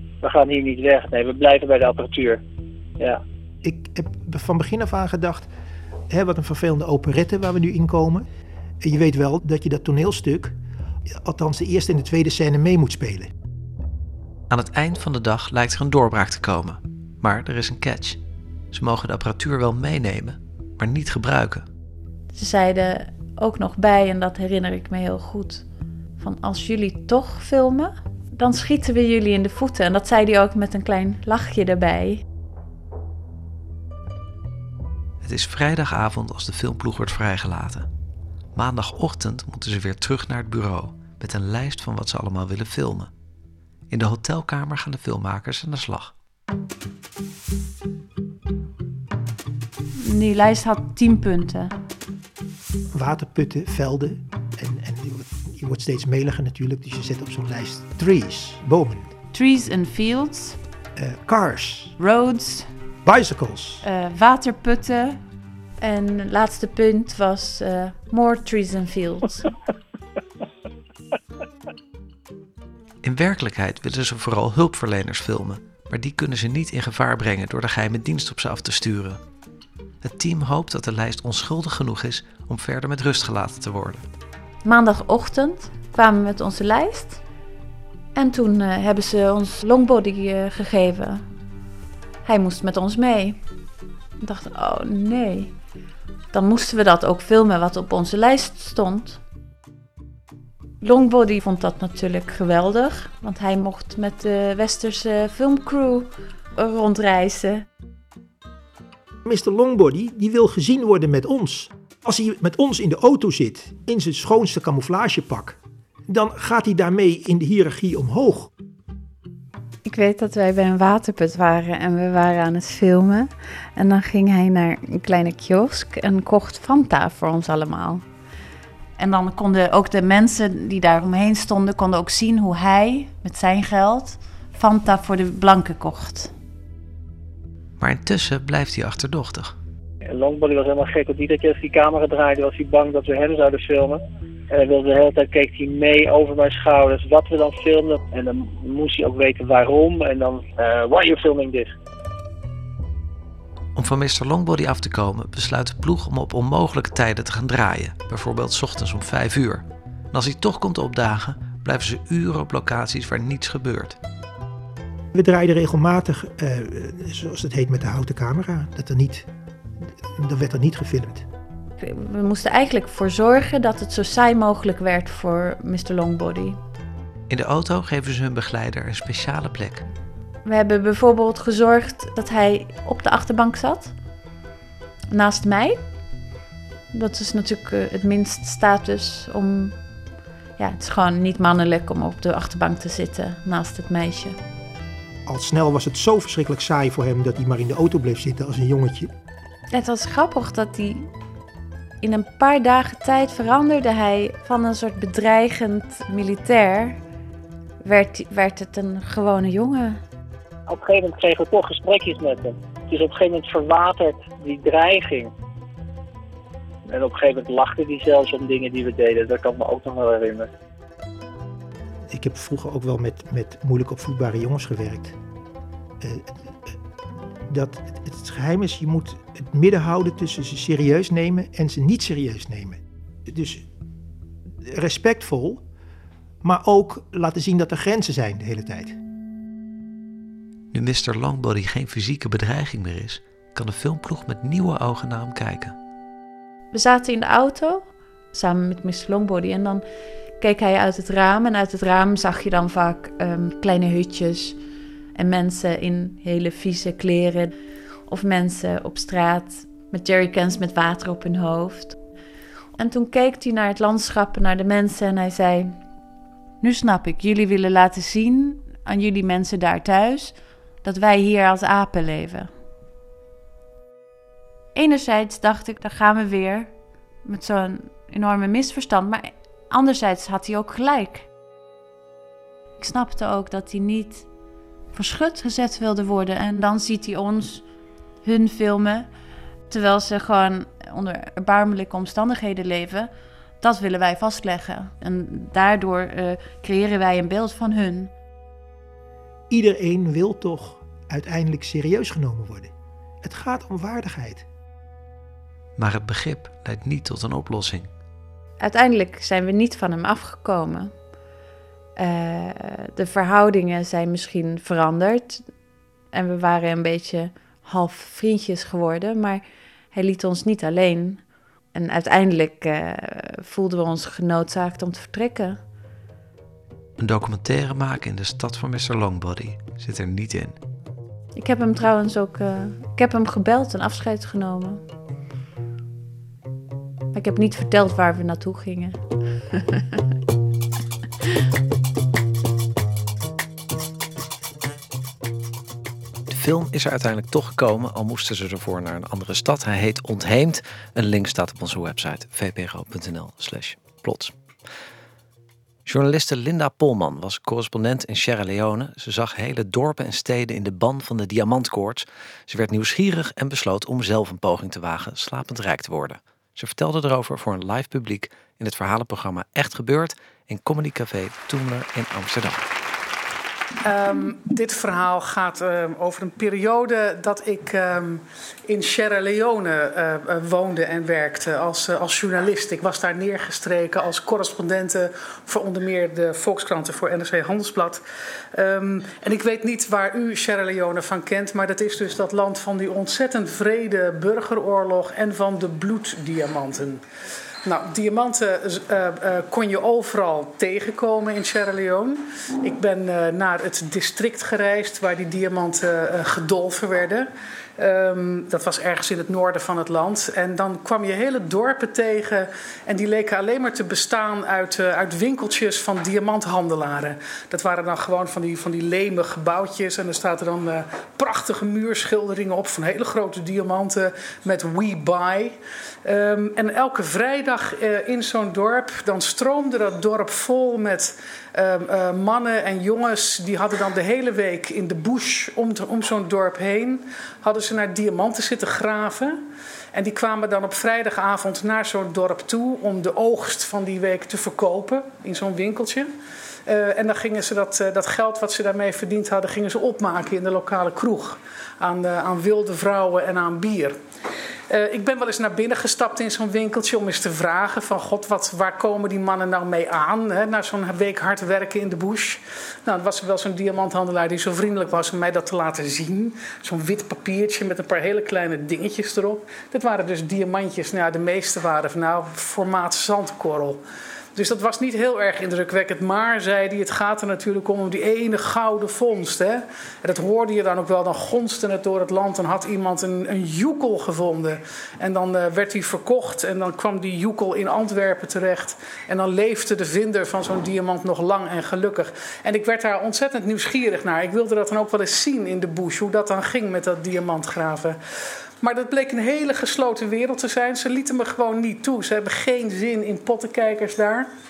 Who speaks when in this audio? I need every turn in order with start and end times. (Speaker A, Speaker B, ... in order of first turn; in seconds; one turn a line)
Speaker A: 0.2-2.4
Speaker B: 3.6-5.5
Speaker B: 6.1-8.3
Speaker B: 8.8-10.6
Speaker B: 11.1-13.3
Speaker C: 14.5-18.2
Speaker C: 18.7-21.7
Speaker D: 22.3-25.6
Speaker D: 26.2-32.2
Speaker C: 35.2-37.9
Speaker C: 38.5-43.1
Speaker C: 43.9-46.1
Speaker D: 50.0-51.7
Speaker B: 52.9-59.1
Speaker D: 59.3-60.6
Speaker B: 61.0-61.9
Speaker D: 62.0-62.7
Speaker B: 63.0-63.8
Speaker D: 63.8-65.2
Speaker D: 65.8-69.5
Speaker C: 73.0-79.2
Speaker C: 80.0-84.0
Speaker D: 84.6-87.2
Speaker D: 88.1-91.2
Speaker D: 92.2-93.4
Speaker D: 94.2-95.5
Speaker D: 96.3-99.2
Speaker D: 100.8-107.6
Speaker B: 109.2-118.5
Speaker D: 119.8-128.0
Speaker D: 129.0-136.3
Speaker C: 137.8-139.6
Speaker A: 140.0-151.7
Speaker C: 153.7-164.0
Speaker B: 165.1-169.3
Speaker B: 169.8-171.2
Speaker D: 171.8-176.6
Speaker C: 177.3-179.8
Speaker D: 180.4-183.9
Speaker D: 185.1-185.8
Speaker D: 186.9-189.8
Speaker D: 190.6-194.4
Speaker B: 195.2-199.1
Speaker D: 199.7-201.1
Speaker D: 202.0-207.0
Speaker D: 207.8-210.0
Speaker A: 210.7-215.3
Speaker A: 216.8-220.5
Speaker B: 222.1-225.2
Speaker B: 226.0-226.8
Speaker B: 227.5-233.7
Speaker B: 234.6-235.6
Speaker B: 236.4-239.0
Speaker C: 240.7-245.8
Speaker D: 246.7-249.8
Speaker D: 250.4-254.6
Speaker D: 255.1-257.5
Speaker D: 258.1-262.0
Speaker D: 262.8-265.8
Speaker D: 266.6-272.5
Speaker D: 274.7-276.7
Speaker D: 277.2-281.3
Speaker D: 282.8-284.3
Speaker D: 284.9-287.6
Speaker D: 288.2-289.1
Speaker D: 289.7-298.1
Speaker B: 299.5-304.4
Speaker C: 305.8-307.9
Speaker D: 308.6-310.9
Speaker D: 312.0-315.4
Speaker D: 316.1-321.2
Speaker D: 321.7-325.6
Speaker C: 327.0-330.6
Speaker D: 331.3-334.8
Speaker D: 337.1-339.0
Speaker D: 339.5-339.8
Speaker C: 346.3-354.3
Speaker C: 355.8-372.6
Speaker E: 373.8-388.0
Speaker E: 388.5-397.0
Speaker E: 397.6-439.4
Speaker E: 439.9-446.1
Speaker E: 446.6-454.0
Speaker E: 454.7-473.8
Speaker E: 474.3-498.0
Speaker E: 498.6-504.3